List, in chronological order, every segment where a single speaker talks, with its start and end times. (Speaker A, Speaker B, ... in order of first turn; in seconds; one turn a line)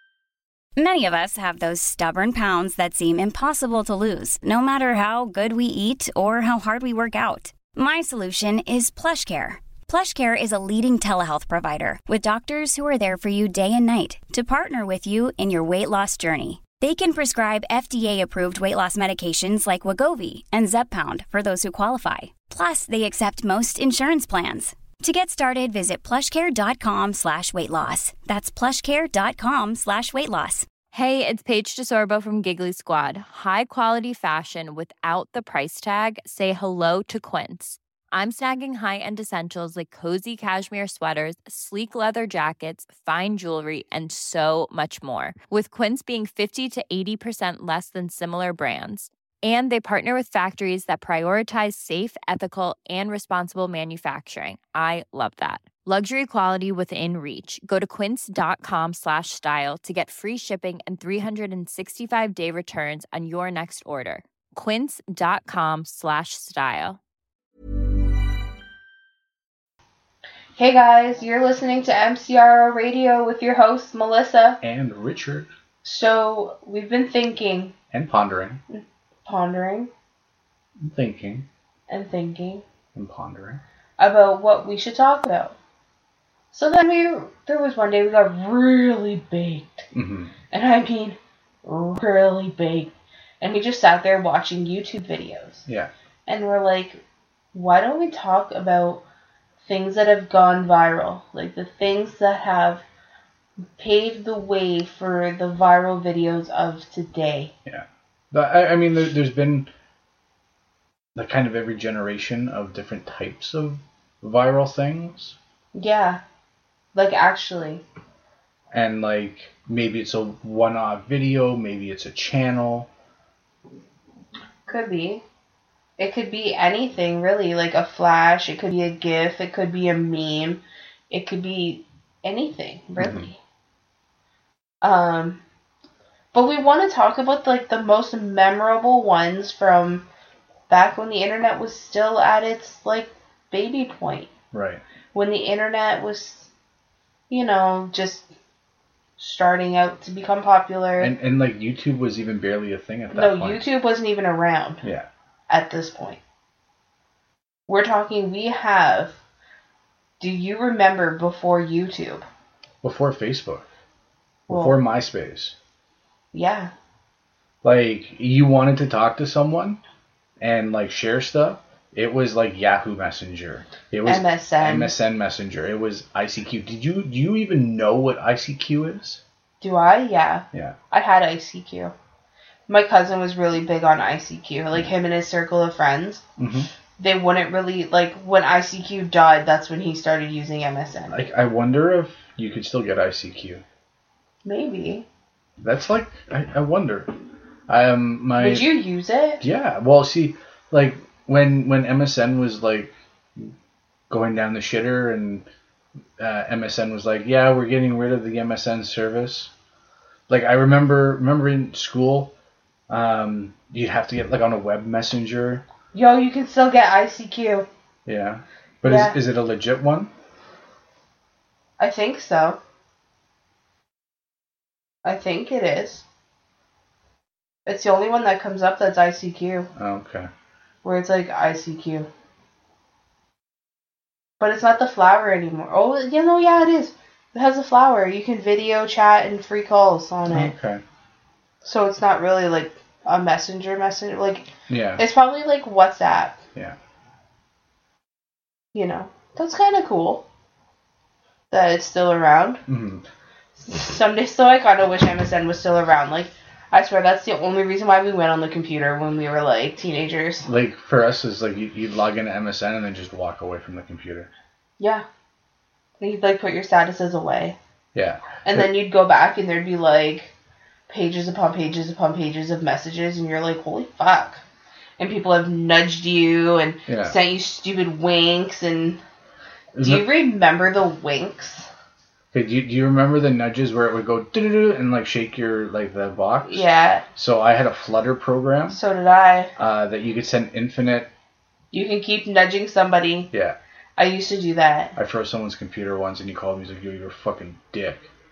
Speaker A: 0.8-30.7
Speaker B: 30.9-67.0
Speaker C: 70.6-74.6
Speaker D: 74.6-75.5
Speaker C: 75.8-77.7
Speaker D: 77.9-78.6
Speaker C: 78.7-79.9
Speaker D: 80.8-81.5
Speaker C: 81.9-82.6
Speaker D: 83.0-83.6
Speaker C: 84.0-85.6
Speaker C: 86.5-89.9
Speaker D: 89.9-90.3
Speaker C: 90.5-95.7
Speaker C: 96.3-97.0
Speaker C: 97.5-99.0
Speaker C: 99.6-102.8
Speaker C: 103.8-107.5
Speaker D: 107.7-109.7
Speaker D: 111.2-115.3
Speaker C: 115.7-116.2
Speaker C: 116.9-117.8
Speaker D: 118.7-122.9
Speaker C: 124.7-125.2
Speaker C: 126.0-133.4
Speaker D: 133.0-133.2
Speaker C: 134.8-135.4
Speaker C: 136.3-140.1
Speaker C: 140.7-144.3
Speaker D: 144.5-144.8
Speaker C: 145.1-146.5
Speaker C: 147.3-148.3
Speaker C: 149.2-151.1
Speaker D: 151.0-153.6
Speaker C: 153.1-154.8
Speaker D: 154.8-155.1
Speaker C: 155.5-156.2
Speaker C: 157.7-159.2
Speaker C: 160.2-162.2
Speaker D: 162.8-163.7
Speaker D: 164.5-165.6
Speaker C: 164.5-164.8
Speaker C: 166.3-166.7
Speaker D: 167.6-169.8
Speaker D: 170.4-179.2
Speaker C: 174.1-174.9
Speaker C: 179.6-181.9
Speaker C: 182.7-186.2
Speaker D: 186.4-186.7
Speaker C: 187.0-191.3
Speaker D: 191.1-193.6
Speaker C: 194.4-195.1
Speaker D: 195.6-197.1
Speaker D: 197.7-198.7
Speaker C: 198.4-199.4
Speaker D: 199.4-203.5
Speaker D: 204.1-205.5
Speaker D: 206.2-209.5
Speaker D: 210.3-212.3
Speaker D: 212.9-215.6
Speaker C: 215.9-217.7
Speaker D: 218.1-220.1
Speaker C: 218.8-219.2
Speaker C: 221.8-222.6
Speaker C: 225.0-226.1
Speaker C: 227.7-229.7
Speaker D: 229.8-230.3
Speaker C: 230.8-232.1
Speaker C: 234.4-240.5
Speaker D: 240.3-240.8
Speaker C: 241.6-246.4
Speaker D: 244.7-245.0
Speaker C: 248.7-250.2
Speaker C: 251.5-252.6
Speaker D: 252.7-253.1
Speaker C: 253.6-260.5
Speaker D: 260.5-264.3
Speaker C: 264.8-265.1
Speaker C: 266.0-267.6
Speaker D: 267.9-268.7
Speaker C: 268.4-270.3
Speaker C: 270.9-274.4
Speaker C: 275.0-279.0
Speaker D: 276.9-277.2
Speaker D: 279.8-280.1
Speaker C: 279.8-281.7
Speaker D: 282.3-288.8
Speaker C: 286.4-287.1
Speaker C: 288.7-289.5
Speaker D: 289.6-291.1
Speaker C: 291.7-293.3
Speaker D: 293.3-293.6
Speaker C: 294.0-294.9
Speaker D: 294.9-298.1